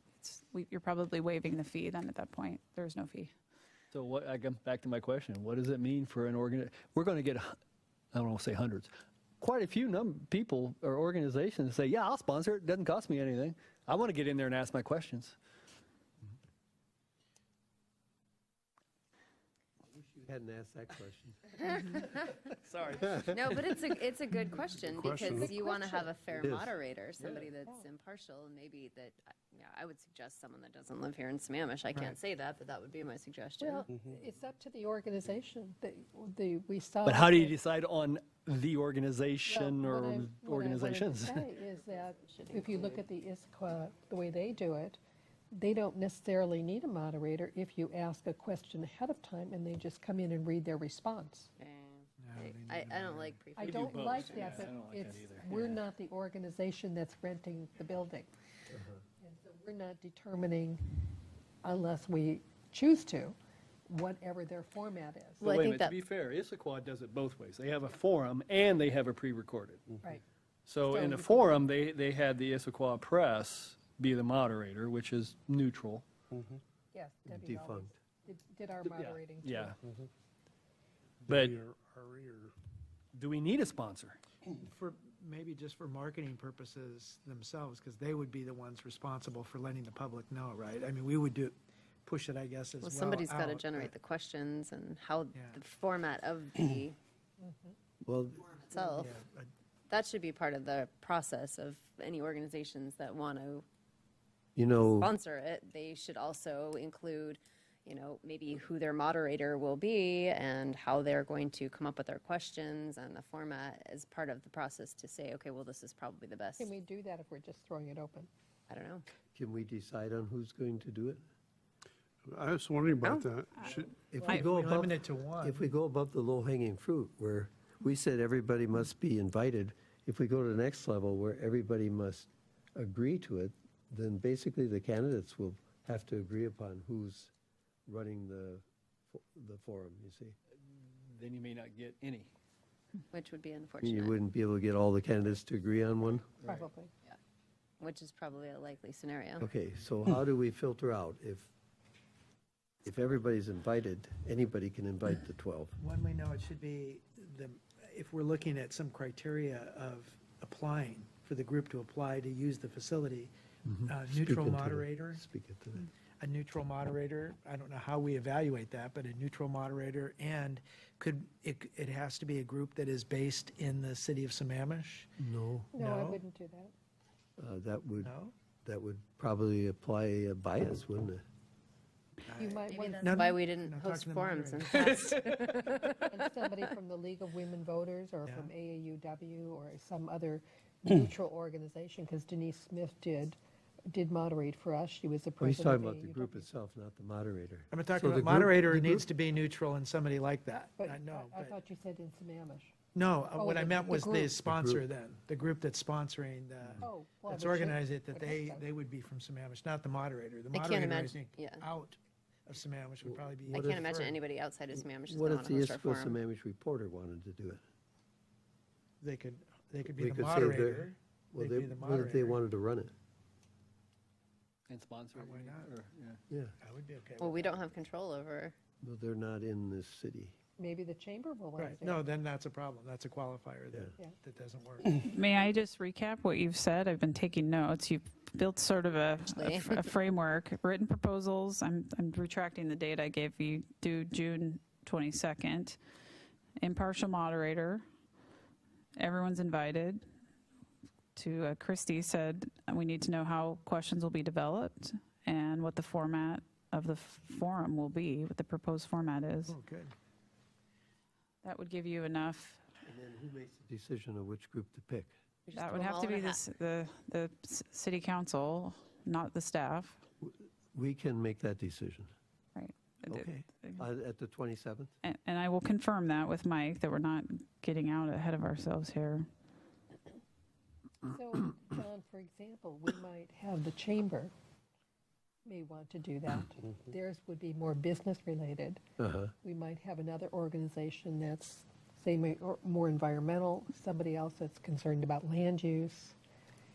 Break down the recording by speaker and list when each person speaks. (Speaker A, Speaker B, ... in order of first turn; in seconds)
Speaker A: 0.2-3.3, 235.0-245.8, 246.6-247.8, 249.0-250.0, 251.2-259.6, 261.4-262.6, 265.6-270.0, 272.5-273.8, 275.0-279.3
Speaker B: 3.9-7.5, 8.1-15.4, 22.6-23.4, 37.0-41.4, 53.6-55.8, 65.4-69.8, 70.7-76.1, 78.8-79.7, 81.3-81.6, 83.1-84.2, 140.7-142.3, 224.7-226.2
Speaker C: 19.9-21.5, 26.4-26.7, 58.7-59.0, 77.3-78.0, 98.0-98.5, 104.5-105.1, 119.3-121.2, 124.1-137.3, 137.9-140.3, 143.8-146.6, 149.4-151.5, 152.8-155.7, 164.0-165.8, 175.2-175.7, 177.4-178.1, 178.6-181.2, 195.4-199.0, 204.4-204.8, 213.1-213.8, 214.8-217.6, 219.9-222.9, 228.8-230.3, 262.8-265.1, 270.2-272.1, 273.1-274.9, 289.0-289.3
Speaker D: 21.6-22.4, 23.3-33.8, 41.5-43.0, 51.6-54.8, 65.4-66.0, 92.8-97.0, 98.5-99.2, 99.9-103.6, 104.8-116.7, 118.7-119.0, 123.0-123.3, 143.1-144.2, 147.8-149.4, 182.7-186.4, 210.5-211.6, 213.5-216.2, 227.2-228.6, 239.2-239.9, 265.5-266.4
Speaker E: 24.7-25.6, 33.9-34.2, 76.3-76.6, 81.2-82.5, 122.2-123.9
Speaker F: 25.2-26.1, 33.6-37.5, 39.5-45.0, 45.5-51.5, 53.5-58.3, 59.2-61.0, 61.6-63.4, 63.9-65.5, 70.8-71.7, 76.9-79.8, 97.4-97.7, 116.6-118.3, 123.6-124.5, 146.4-146.9, 175.7-176.7, 182.3-183.4, 185.8-193.4, 193.9-196.5, 200.8-204.3, 206.8-208.7, 230.6-232.1, 281.0-284.3, 285.4-288.8, 289.4-296.1
Speaker G: 52.2-53.4, 84.6-93.9, 95.3-95.6, 98.7-99.5, 124.3-125.6, 155.8-163.3, 163.8-165.2, 166.2-175.2, 175.8-176.2, 178.0-178.3, 182.3-185.1, 188.2-188.5, 197.7-201.6, 202.9-214.2, 219.0-222.4, 225.1-225.7, 226.6-227.6, 231.6-235.0, 259.5-259.9